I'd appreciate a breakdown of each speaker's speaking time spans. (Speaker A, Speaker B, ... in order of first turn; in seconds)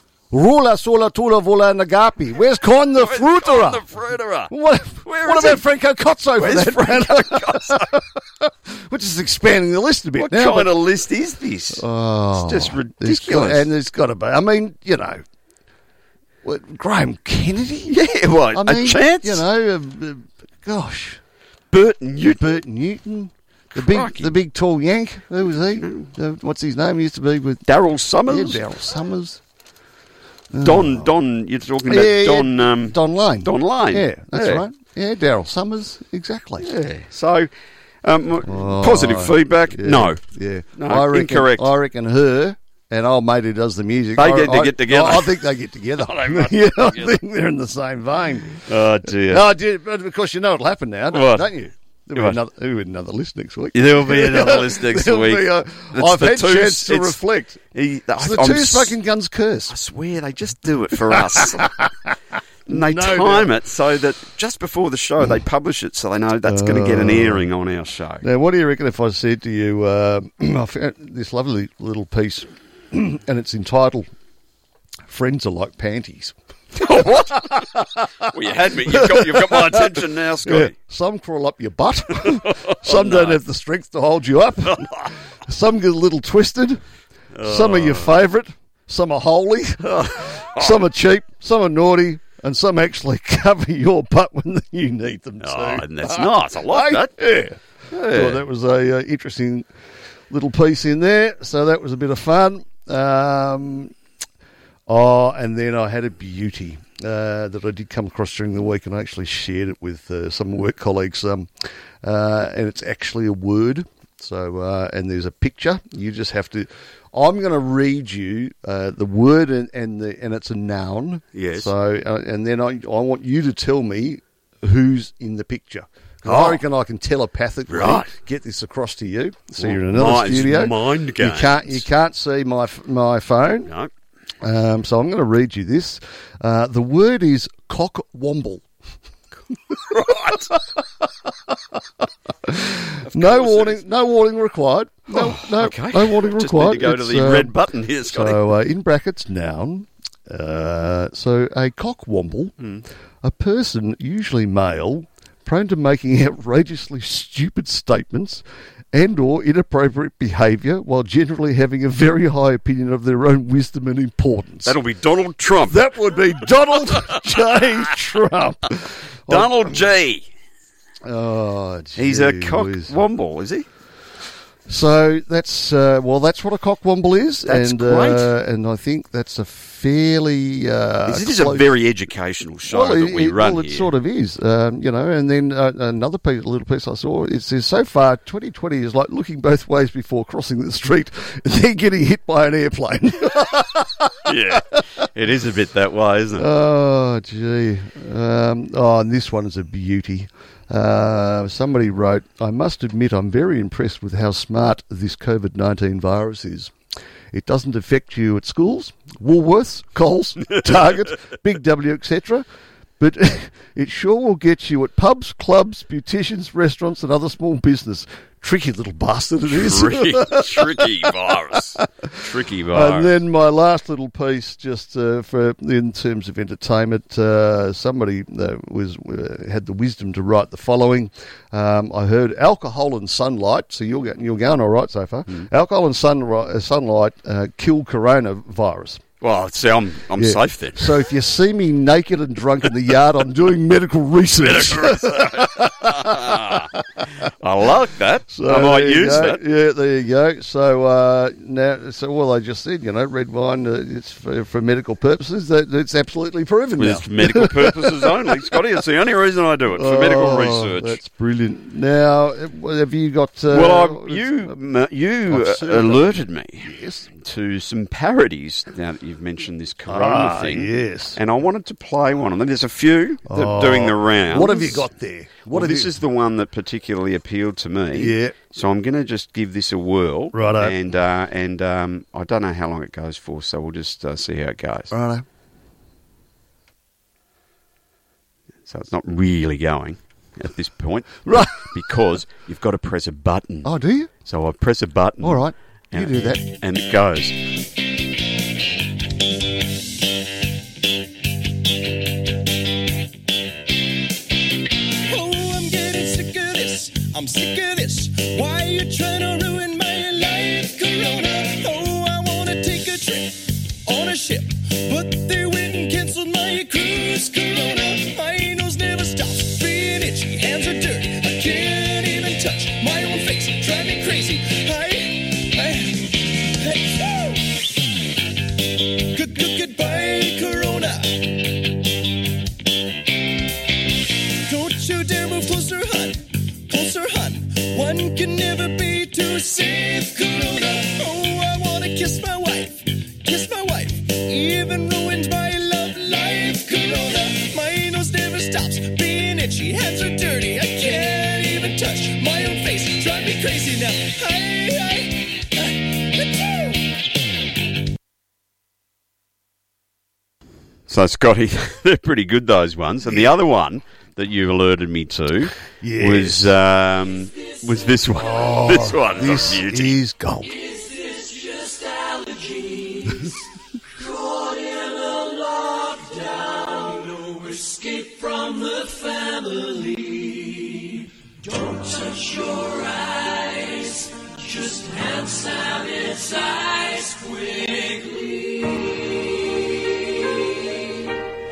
Speaker A: 0.3-3.8, 4.5-10.7, 11.7-15.2, 16.4-18.0, 18.5-21.2, 22.3-27.6, 28.2-29.4, 30.5-31.1, 31.9-36.7, 38.4-57.6, 58.2-59.7, 61.0-61.9, 62.7-63.5, 66.4-67.5, 68.2-74.1, 75.1-86.8, 87.4-99.7, 100.3-103.9, 104.9-111.5, 112.0-133.7, 134.4-138.6, 140.0-140.6, 142.4-152.5, 153.2-164.8, 165.7-169.9, 171.0-173.0, 174.7-181.7, 182.7-194.6, 196.4-206.7, 207.3-212.4, 213.0-221.1, 222.7-239.0, 240.2-246.6, 248.3-258.4, 259.7-264.6, 265.3-267.1, 269.9-271.2, 273.2-275.9, 277.9-278.4, 280.3-280.8, 284.9-285.2, 291.2-291.7, 293.6-294.1, 295.2-296.4, 365.8-366.5, 368.1-370.5
Speaker B: 3.0-4.5, 5.0-5.6, 6.3-7.9, 10.2-11.8, 12.3-13.7, 17.9-19.4, 21.7-22.6, 23.7-24.4, 25.8-26.1, 27.6-28.6, 30.6-34.6, 36.6-37.5, 38.0-40.2, 40.8-41.7, 44.1-45.4, 46.0-47.2, 48.6-49.5, 51.1-51.5, 52.1-52.4, 53.7-57.2, 57.7-59.0, 59.7-61.7, 62.7-68.2, 76.7-77.7, 78.2-80.7, 82.4-83.4, 87.3-88.2, 89.9-90.8, 95.4-97.1, 97.9-98.4, 121.3-121.7, 126.2-126.6, 127.7-128.1, 129.6-131.8, 133.6-133.9, 139.9-140.5, 143.0-143.8, 145.1-148.5, 152.6-152.8, 164.6-165.8, 169.3-170.2, 171.9-173.7, 177.4-178.3, 181.1-183.9, 194.2-196.5, 210.5-210.7, 219.5-223.1, 239.2-241.0, 244.4-246.7, 247.4-249.4, 256.8-261.0, 263.5-274.9, 275.5-284.9, 288.6-293.7, 294.2-297.4, 360.9-370.0
Speaker C: 305.1-327.6, 329.1-331.3, 334.4-356.8
Speaker D: 370.5-373.3, 373.9-390.5